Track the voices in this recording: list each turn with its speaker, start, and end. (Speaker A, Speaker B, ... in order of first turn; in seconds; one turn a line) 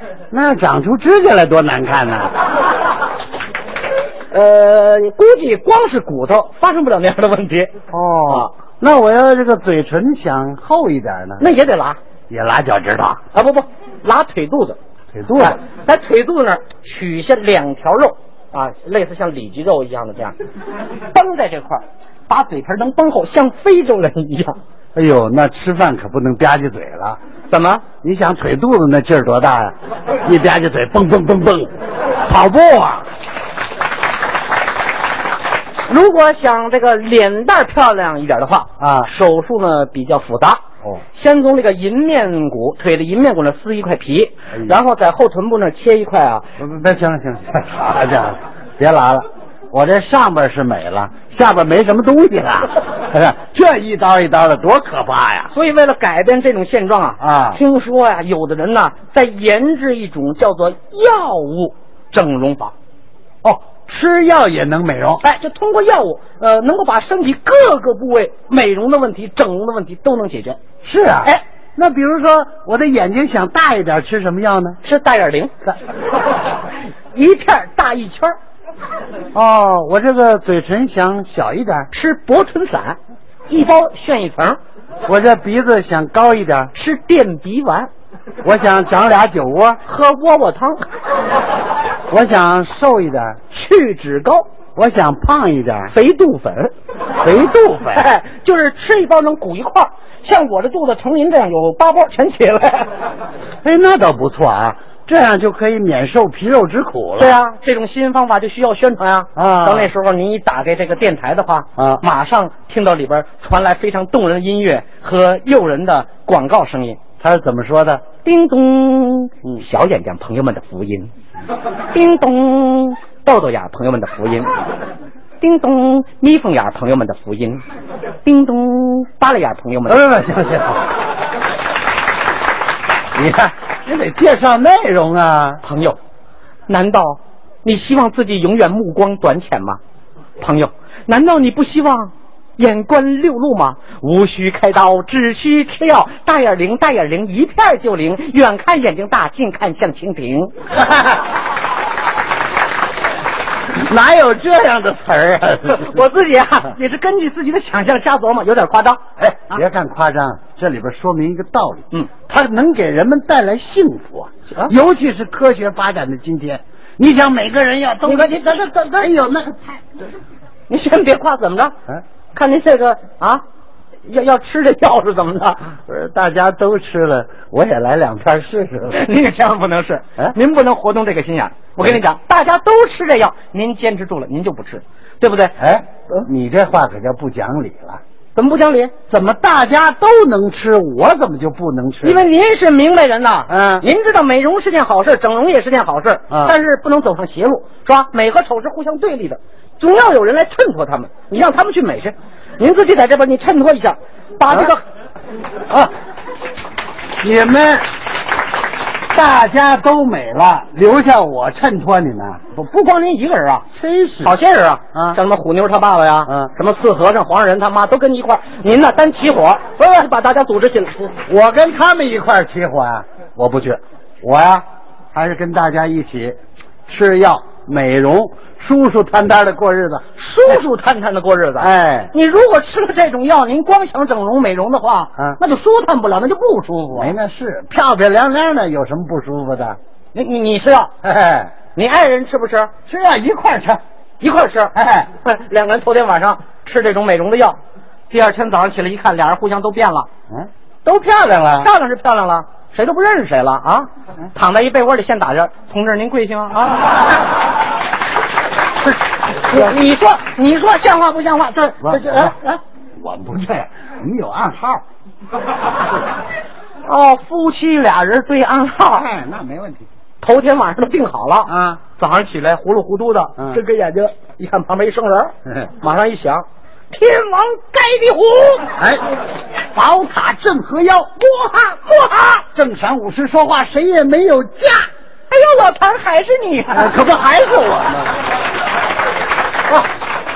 Speaker A: 0.3-2.3
Speaker B: 4.3-7.7
Speaker A: 7.9-11.5
Speaker B: 11.4-12.0
Speaker A: 12.3-13.2
Speaker B: 13.3-14.8
Speaker A: 15.1-15.6
Speaker B: 15.4-20.4
Speaker B: 21.1-24.6
Speaker A: 24.9-27.2
Speaker B: 27.5-27.9
Speaker A: 28.0-31.7
Speaker A: 32.2-33.1
Speaker B: 35.9-40.6
Speaker A: 38.8-39.1
Speaker B: 41.1-46.5
Speaker A: 46.6-55.5
Speaker B: 55.5-62.7
Speaker A: 57.2-57.6
Speaker A: 63.4-65.2
Speaker B: 65.2-70.6
Speaker A: 70.8-74.8
Speaker B: 74.8-75.5
Speaker B: 77.1-78.4
Speaker A: 79.3-81.9
Speaker B: 81.9-83.0
Speaker B: 83.5-84.6
Speaker A: 85.1-86.7
Speaker B: 86.7-87.9
Speaker A: 88.4-89.8
Speaker B: 89.9-90.9
Speaker A: 92.1-93.4
Speaker B: 93.5-94.5
Speaker A: 94.8-95.9
Speaker B: 95.9-96.7
Speaker A: 97.2-98.1
Speaker B: 98.0-102.9
Speaker A: 103.6-107.4
Speaker B: 107.2-117.0
Speaker A: 109.4-109.9
Speaker A: 111.8-112.0
Speaker A: 117.2-118.0
Speaker B: 118.2-121.1
Speaker B: 121.9-124.5
Speaker B: 125.4-127.6
Speaker B: 128.2-130.0
Speaker A: 129.9-130.8
Speaker A: 133.2-135.6
Speaker B: 135.6-136.0
Speaker B: 136.7-139.8
Speaker B: 140.4-150.5
Speaker A: 153.7-155.9
Speaker B: 155.7-159.0
Speaker A: 159.2-170.1
Speaker B: 168.1-168.6
Speaker B: 170.7-171.8
Speaker B: 172.3-173.4
Speaker B: 174.1-175.7
Speaker A: 175.9-179.1
Speaker B: 178.9-185.6
Speaker A: 185.6-188.0
Speaker B: 188.3-188.9
Speaker A: 189.1-192.3
Speaker B: 192.0-204.8
Speaker A: 193.5-193.9
Speaker A: 196.3-196.6
Speaker A: 207.2-207.9
Speaker A: 209.1-212.6
Speaker B: 212.6-213.7
Speaker A: 213.7-214.4
Speaker B: 214.2-221.2
Speaker A: 214.9-215.2
Speaker A: 216.3-216.5
Speaker A: 221.3-230.6
Speaker B: 230.2-237.2
Speaker A: 231.6-232.1
Speaker A: 236.9-239.8
Speaker B: 240.2-240.9
Speaker A: 241.0-241.5
Speaker B: 241.8-242.7
Speaker A: 242.9-243.8
Speaker B: 244.2-247.6
Speaker A: 244.8-245.1
Speaker B: 248.1-250.1
Speaker A: 250.3-251.7
Speaker B: 251.6-257.1
Speaker B: 259.4-262.6
Speaker A: 261.8-262.4
Speaker A: 263.0-264.8
Speaker B: 266.9-269.1
Speaker A: 268.9-269.9
Speaker B: 270.2-278.7
Speaker A: 271.5-271.8
Speaker A: 275.5-275.7
Speaker A: 278.8-279.1
Speaker A: 279.7-281.2
Speaker B: 281.3-282.4
Speaker A: 282.4-284.9
Speaker B: 285.3-287.0
Speaker A: 286.7-288.2